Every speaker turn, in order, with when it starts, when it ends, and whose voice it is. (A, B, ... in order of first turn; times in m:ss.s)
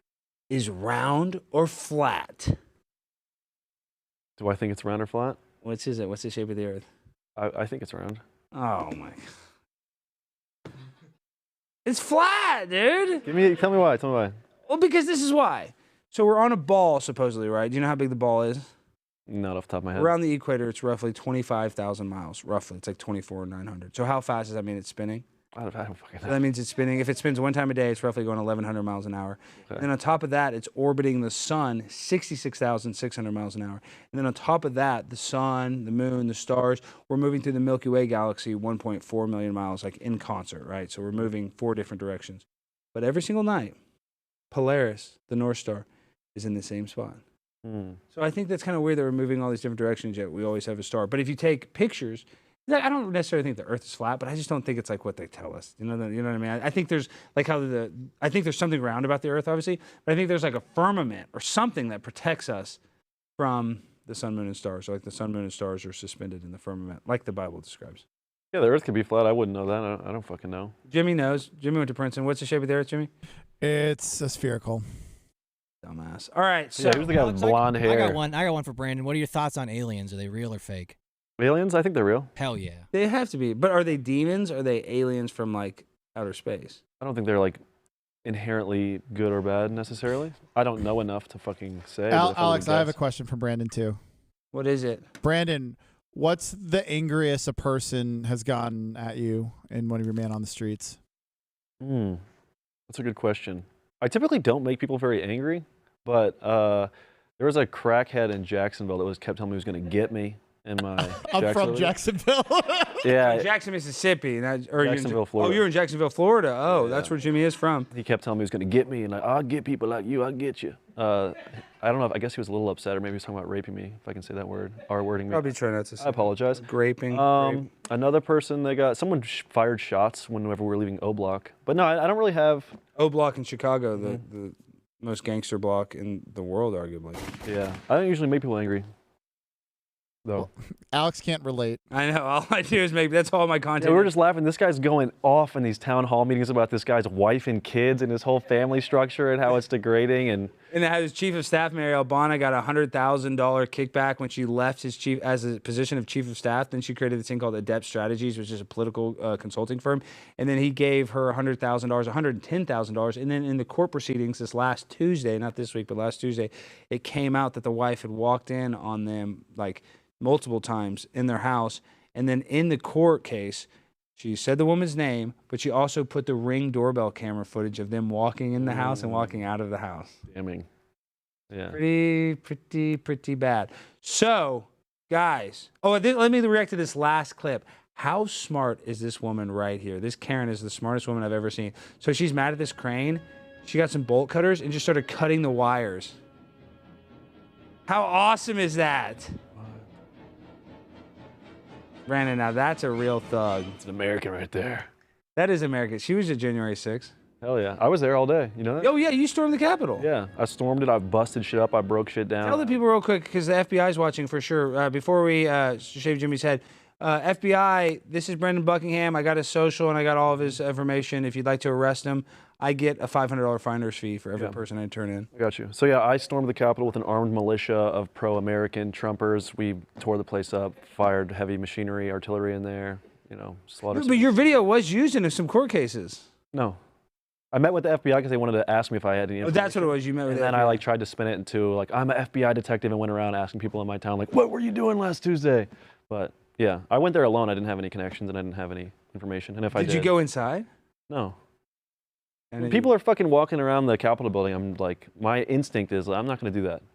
0:00.5-0:02.6 A
0:04.4-0:05.4 B
0:05.6-0:06.8 A
0:07.4-0:08.2 B
0:08.5-0:09.2 A
0:11.8-0:13.2 A
0:13.2-0:14.4 B
0:14.7-0:18.7 A
0:19.3-0:20.1 B
0:19.9-0:25.2 A
0:25.5-0:26.4 B
0:26.2-0:43.8 A
0:44.5-0:47.2 A
0:47.6-0:48.0 B
0:48.1-1:02.8 A
1:03.4-1:08.0 A
1:08.5-1:10.7 B
1:10.9-1:13.1 A
1:13.6-1:14.8 C
1:15.8-1:17.2 A
1:16.7-1:18.2 B
1:16.8-1:21.0 D
1:21.4-1:22.3 B
1:22.4-1:22.8 D
1:22.9-1:26.8 A
1:27.0-1:27.6 B
1:28.2-1:32.9 B
1:32.1-1:34.0 C
1:34.5-1:35.1 A
1:35.2-1:41.0 C
1:41.8-1:42.2 B
1:42.9-1:51.9 B
1:51.0-1:53.1 C
1:53.0-1:53.5 B
1:53.2-1:57.9 A
1:54.8-1:55.6 B
1:56.7-1:57.1 B
1:57.9-2:12.8 B
2:05.3-2:07.6 A
2:13.0-2:17.2 A
2:17.4-2:18.9 B
2:20.4-2:21.8 C
2:21.9-2:24.1 A
2:23.8-2:30.5 B
2:30.7-3:00.1 A
2:58.6-2:59.4 B
3:00.3-3:00.7 B
3:01.5-3:01.8 B
3:01.7-3:16.2 A
3:17.9-3:19.4 A
3:22.1-3:23.8 A
3:23.8-3:24.9 B
3:25.4-3:27.1 A
3:27.4-3:28.9 B
3:28.8-3:30.1 A
3:30.0-3:32.7 B
3:32.4-3:45.3 A
3:44.4-3:44.6 B
3:45.3-3:54.3 B
3:53.9-3:56.2 A
3:56.5-3:56.8 B
3:57.5-4:10.1 B
3:59.4-4:00.8 A
4:09.7-4:10.7 A
4:11.1-4:11.4 B
4:12.5-4:12.9 A
4:12.6-4:16.8 B